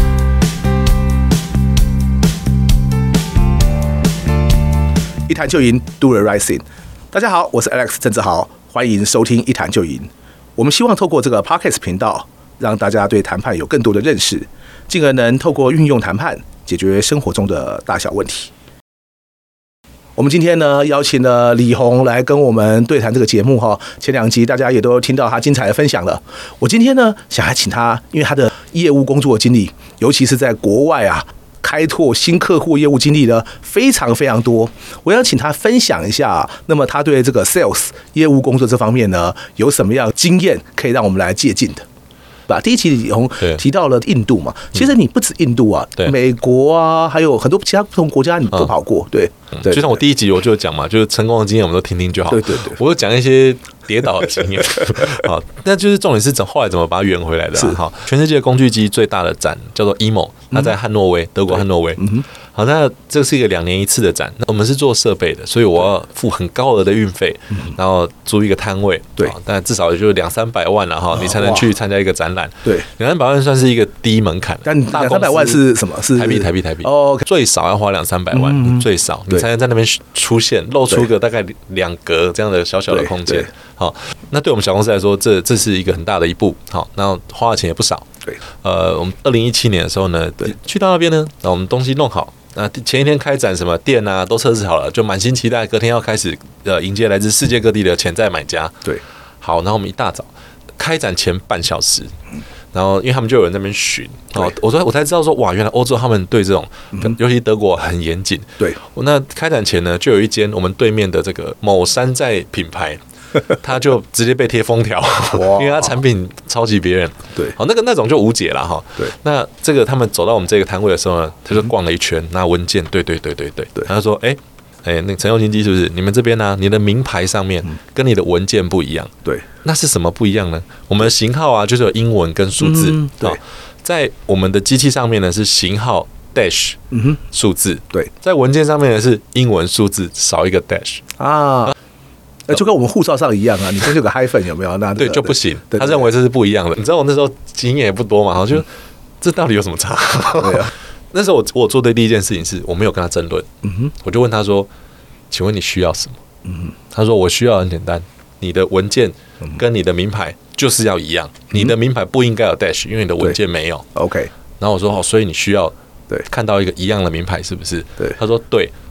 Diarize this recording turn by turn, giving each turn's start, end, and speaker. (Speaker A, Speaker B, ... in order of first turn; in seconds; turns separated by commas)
Speaker A: 5.3-18.5, Speaker A: 20.1-41.8, Speaker A: 42.5-49.9, Speaker B: 49.5-88.1, Speaker A: 52.3-52.8, Speaker A: 62.0-62.2, Speaker A: 71.2-71.6, Speaker A: 74.6-77.2, Speaker A: 78.3-79.4, Speaker A: 82.9-83.5, Speaker B: 88.6-102.1, Speaker B: 102.7-136.8, Speaker A: 115.3-116.0, Speaker A: 132.6-133.4, Speaker B: 137.3-141.0, Speaker A: 141.2-141.7, Speaker A: 142.5-146.1, Speaker B: 145.0-148.7, Speaker B: 149.2-153.5, Speaker A: 150.4-150.7, Speaker A: 153.6-153.9, Speaker B: 154.0-154.7, Speaker B: 155.3-156.2, Speaker B: 156.9-163.8, Speaker A: 163.9-164.3, Speaker B: 164.6-165.7, Speaker B: 166.2-168.7